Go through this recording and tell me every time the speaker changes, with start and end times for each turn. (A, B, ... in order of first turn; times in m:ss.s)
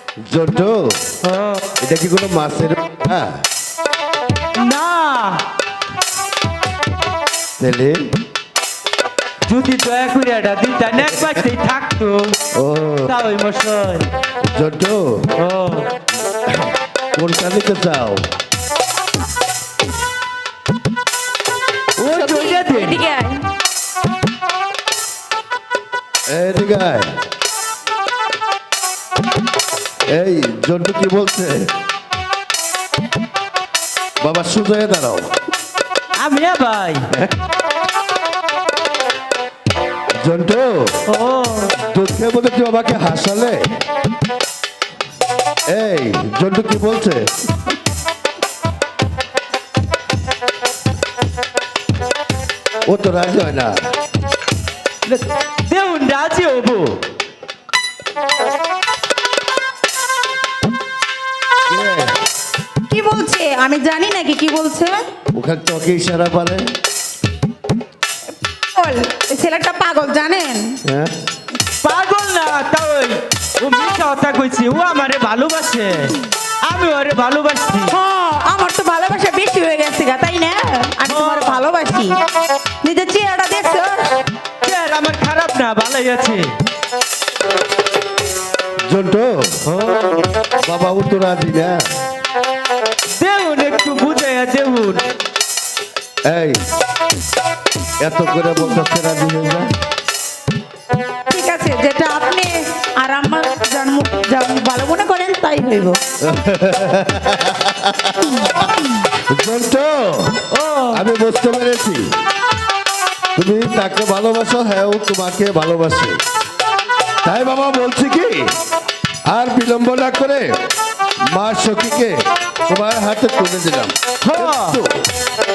0:00.2-0:01.0 A
0:01.2-0:01.7 B
0:01.8-0:03.4 A
0:04.6-0:05.4 B
0:07.6-0:08.1 A
0:09.5-0:12.4 B
0:12.5-0:13.1 A
0:13.1-0:14.1 B
0:14.5-0:15.3 A
0:15.4-0:15.9 B
0:16.5-0:18.3 A
0:22.0-0:23.0 B
0:22.1-0:23.4 C
0:26.3-0:27.1 A
0:30.1-0:31.7 A
0:34.2-0:35.3 A
0:36.2-0:37.1 B
0:40.2-0:41.0 A
0:41.1-0:41.8 B
0:41.8-0:43.7 A
0:45.7-0:47.3 A
0:52.9-0:53.9 A
0:55.0-0:57.0 B
1:01.7-1:02.2 A
1:02.9-1:05.0 C
1:05.3-1:06.7 A
1:08.7-1:10.8 C
1:10.8-1:11.1 A
1:11.8-1:17.9 B
1:17.9-1:22.2 C
1:21.1-1:21.6 B
1:22.8-1:24.1 C
1:24.6-1:26.5 B
1:28.9-1:29.6 A
1:29.7-1:30.3 B
1:30.6-1:31.8 A
1:33.2-1:35.1 B
1:36.2-1:36.6 A
1:38.0-1:39.7 A
1:41.3-1:46.0 C
1:46.2-1:50.4 A
1:50.5-1:51.0 B
1:50.9-1:52.1 A
1:53.4-1:56.2 A
1:57.2-1:58.6 A
1:59.2-2:00.6 A
2:01.3-2:05.0 A
2:04.2-2:04.8 B